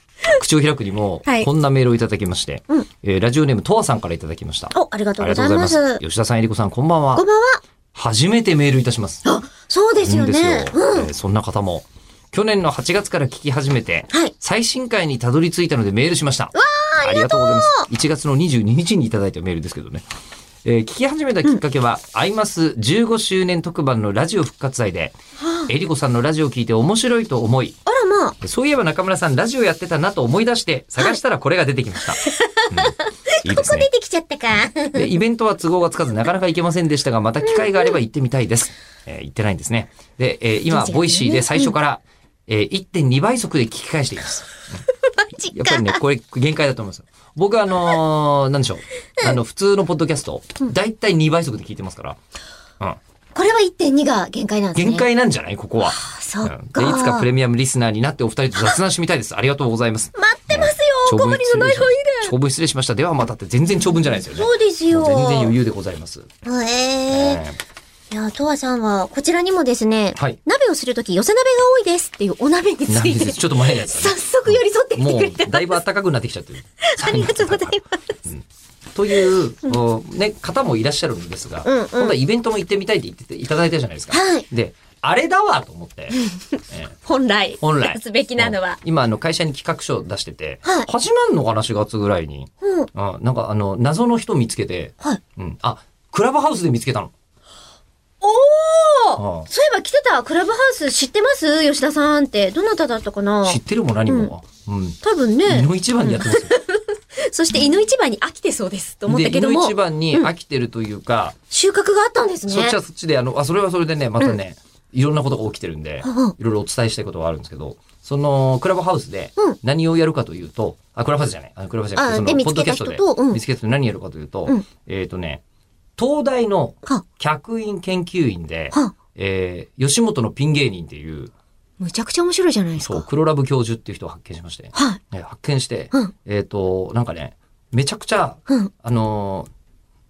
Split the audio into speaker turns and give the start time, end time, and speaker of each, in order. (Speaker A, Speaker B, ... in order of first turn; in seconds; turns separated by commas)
Speaker A: 0.2-7.2, Speaker B: 4.7-6.0, Speaker B: 7.2-7.6, Speaker A: 7.9-9.2, Speaker B: 9.2-11.1, Speaker A: 10.0-20.0, Speaker B: 16.6-17.9, Speaker A: 20.6-25.1, Speaker A: 25.7-27.8, Speaker B: 27.9-28.4, Speaker A: 28.4-33.9, Speaker B: 32.2-35.1, Speaker A: 34.9-44.8, Speaker B: 40.7-41.7, Speaker B: 45.2-46.0, Speaker A: 45.4-52.2, Speaker B: 53.4-55.0, Speaker A: 54.8-66.3, Speaker B: 55.8-57.3, Speaker B: 60.2-62.3, Speaker B: 64.2-65.5, Speaker B: 66.4-67.4, Speaker A: 67.1-67.6, Speaker B: 68.1-75.8, Speaker A: 72.9-86.2, Speaker B: 76.8-78.0, Speaker B: 81.6-82.2, Speaker B: 84.1-84.5, Speaker A: 86.7-87.0, Speaker B: 87.0-88.8, Speaker A: 87.6-97.1, Speaker B: 92.6-92.9, Speaker B: 98.2-104.3, Speaker A: 99.2-99.5, Speaker A: 103.5-106.6, Speaker B: 105.0-110.3, Speaker A: 109.1-111.4, Speaker B: 111.5-112.8, Speaker A: 112.5-125.4, Speaker B: 116.0-116.3, Speaker B: 122.0-123.4, Speaker A: 126.0-131.3, Speaker B: 131.8-133.1, Speaker A: 132.8-139.5, Speaker B: 134.7-135.0